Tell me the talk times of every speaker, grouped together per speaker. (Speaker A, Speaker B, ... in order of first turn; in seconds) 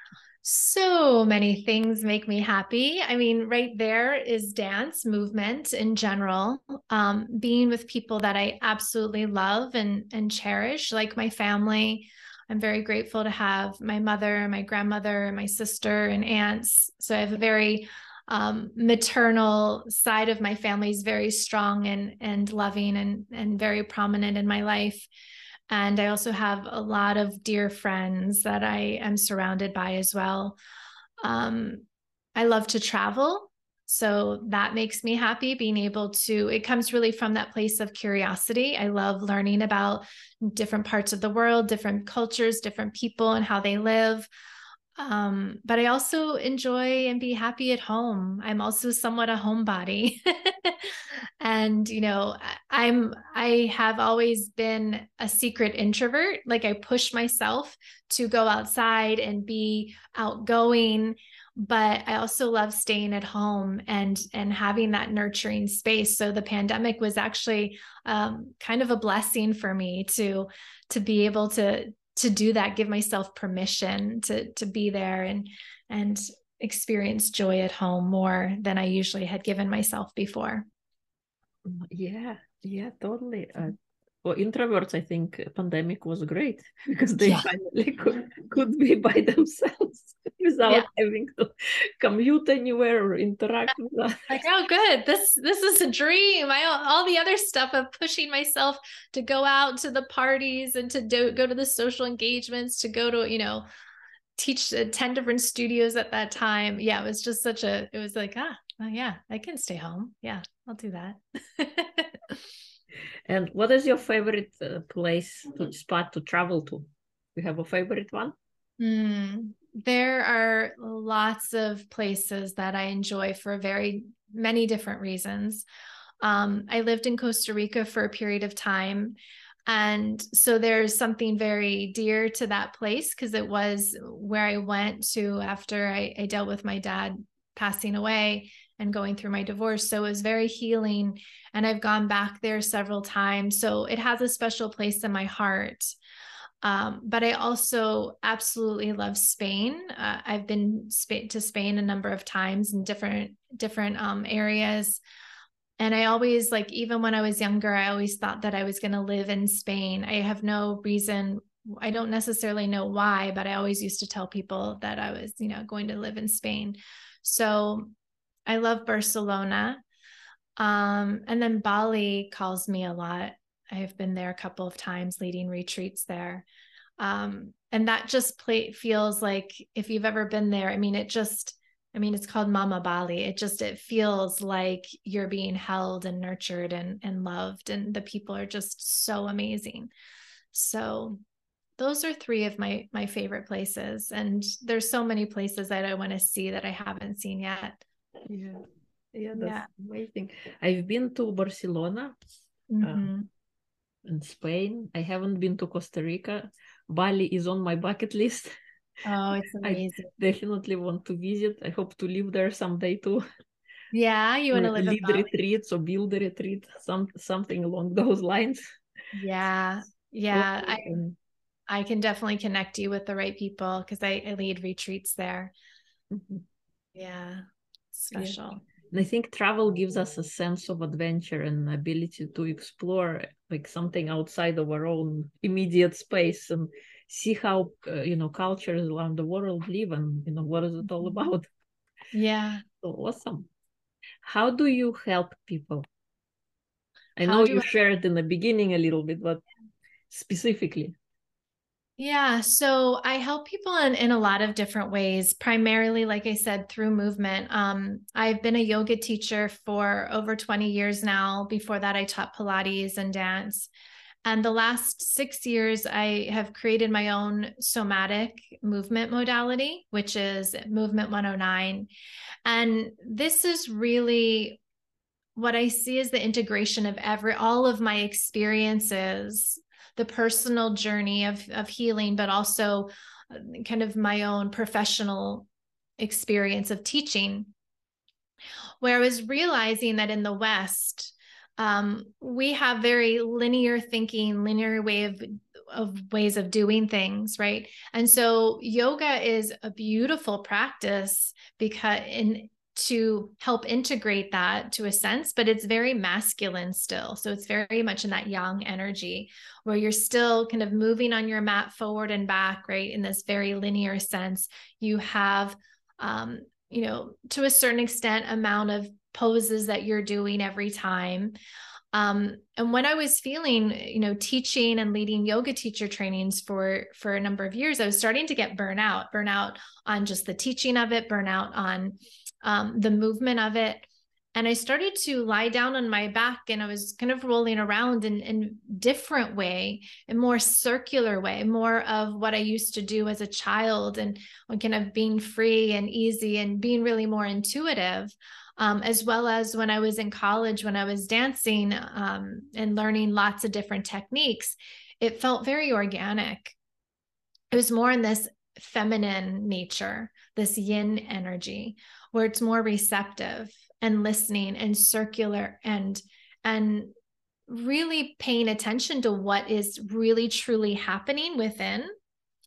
Speaker A: 0.4-25.1, 25.7-30.6, 31.2-31.8, 32.4-44.3, 45.0-80.7, 87.2-87.5, 94.3-103.7, 104.4-112.3, 118.8-125.7, 126.2-129.2, 129.7-145.9, 146.6-155.0, 155.8-167.9, 168.5-169.8, 170.6-176.4, 177.0-189.9, 190.5-191.2, 191.8-197.8, 199.3-199.7, 202.7-203.3, 209.0-210.1, 213.9-215.3, 219.1-220.9, 221.7-225.5, 226.9-228.6, 242.1-242.6, 247.2-247.7, 252.0-263.7, 264.2-271.9, 272.4-274.6, 275.4-285.5, 286.0-287.5, 288.8-321.3, 321.9-356.6, 357.5-366.9, 367.5-371.9
Speaker B: 81.6-94.3, 113.3-118.3, 198.3-198.6, 199.1-202.2, 202.8-203.1, 204.0-208.5, 209.6-213.2, 214.5-218.6, 220.3-221.2, 226.1-226.4, 228.1-241.4, 242.8-243.5, 244.2-245.8, 247.2-249.4, 250.1-250.9